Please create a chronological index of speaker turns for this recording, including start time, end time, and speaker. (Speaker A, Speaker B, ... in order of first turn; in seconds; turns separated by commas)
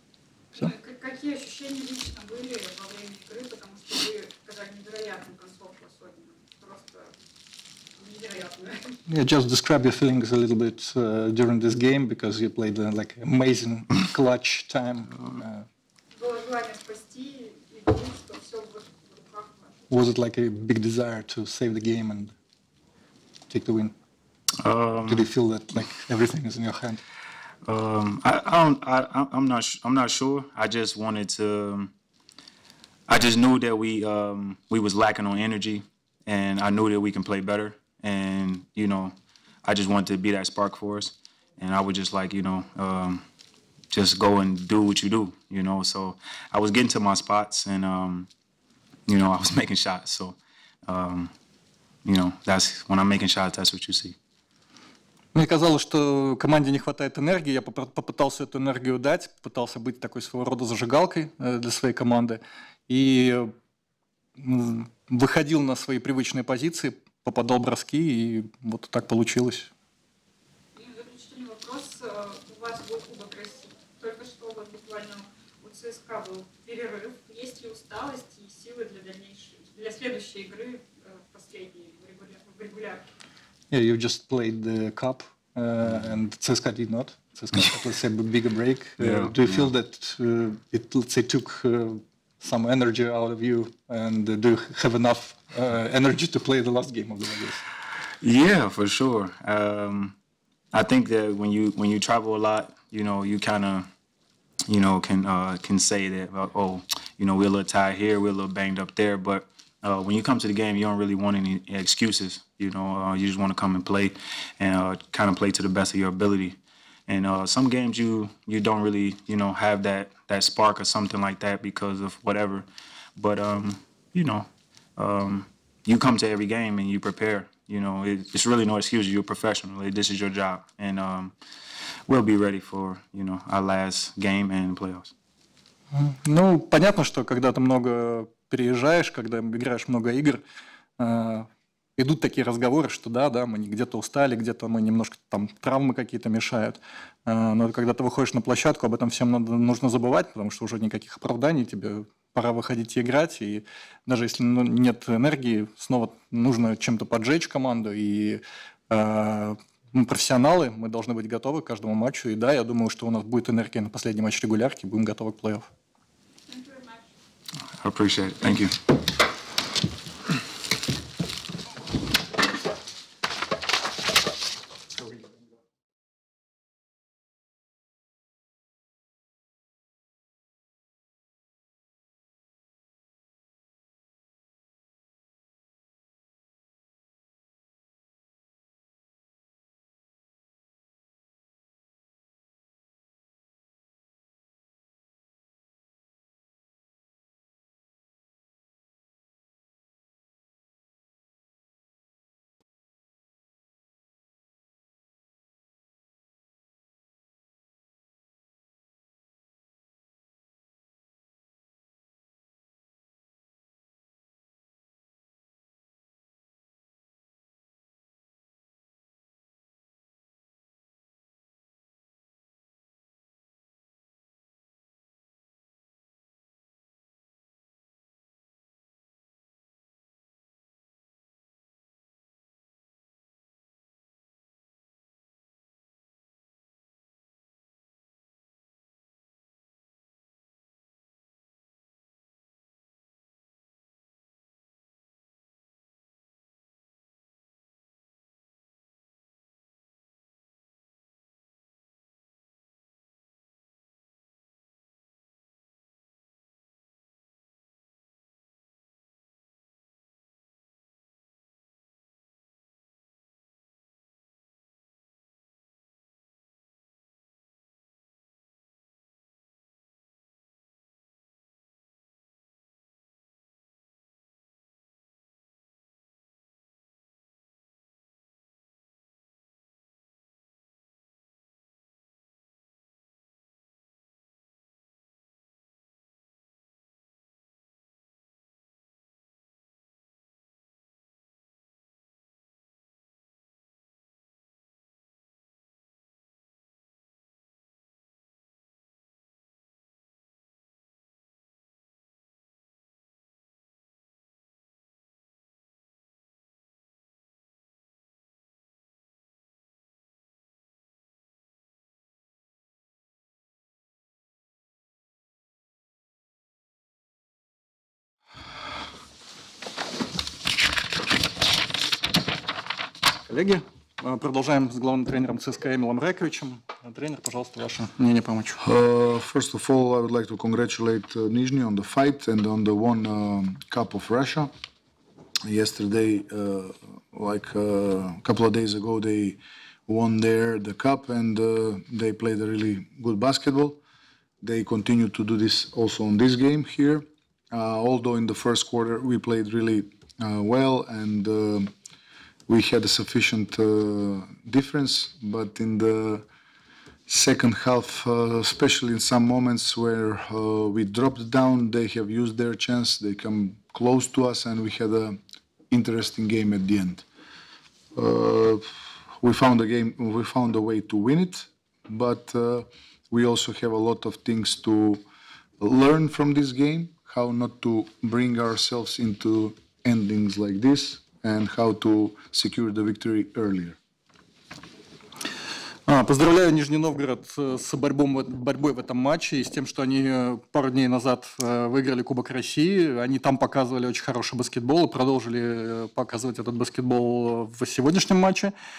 Speaker A: 0.6-7.1, Speaker A: 8.0-9.0, Speaker B: 9.1-15.7, Speaker A: 16.1-19.9, Speaker B: 19.9-22.3, Speaker B: 23.5-23.9, Speaker C: 24.6-25.3, Speaker B: 25.1-27.0, Speaker C: 27.6-31.9, Speaker C: 33.1-43.2, Speaker C: 43.9-48.3, Speaker C: 49.1-51.3, Speaker C: 52.0-54.1, Speaker B: 55.3-63.5, Speaker B: 64.4-69.7, Speaker A: 70.8-83.1, Speaker B: 83.7-97.6, Speaker C: 89.0-89.7, Speaker C: 98.2-100.2, Speaker C: 100.7-103.9, Speaker C: 104.7-131.3, Speaker C: 132.1-135.1, Speaker B: 135.9-140.4, Speaker B: 141.0-165.7, Speaker A: 166.5-167.0, Speaker C: 167.8-168.7, Speaker B: 323.2-328.6, Speaker D: 328.6-334.5, Speaker D: 335.4-343.8, Speaker D: 344.4-351.7, Speaker D: 352.5-356.2, Speaker D: 357.1-365.2, Speaker D: 365.7-367.1, Speaker D: 367.9-368.6, Speaker D: 369.2-375.0, Speaker D: 375.6-383.8, Speaker B: 385.9-398.5